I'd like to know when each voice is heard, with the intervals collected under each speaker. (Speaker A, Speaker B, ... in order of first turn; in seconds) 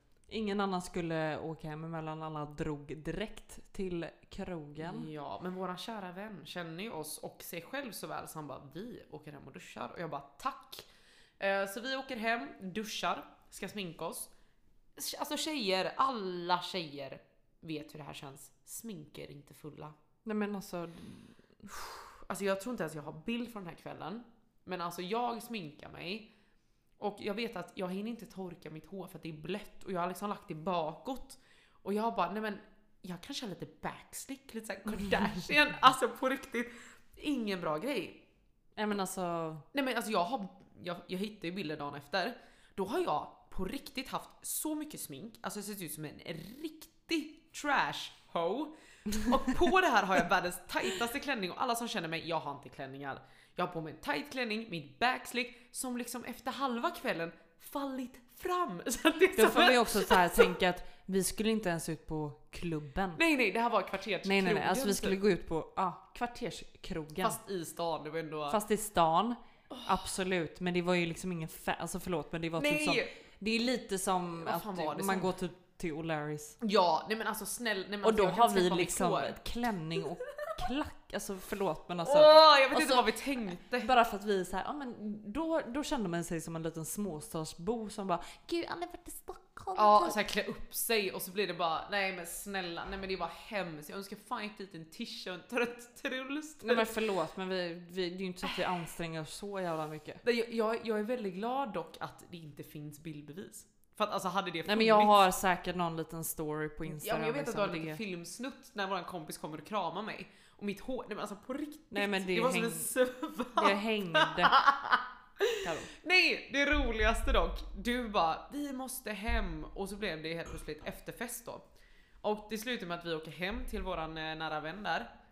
Speaker A: 0.3-5.1, 20.2-21.7, 38.8-39.6, 59.3-63.2, 64.2-67.4, 68.5-76.6, 78.0-83.1, 83.8-90.2, 96.6-100.2, 104.6-108.0, 111.9-112.9, 113.6-114.5, 115.6-115.9
Speaker B: 4.8-10.8, 11.4-14.3, 14.9-19.9, 22.1-26.3, 27.0-38.2, 39.7-60.5, 63.1-65.2, 67.2-68.6, 69.7-70.0, 72.6-73.1, 74.3-75.3, 76.6-79.3, 82.0-83.9, 89.7-96.9, 100.2-105.2, 106.8-121.6, 122.2-125.1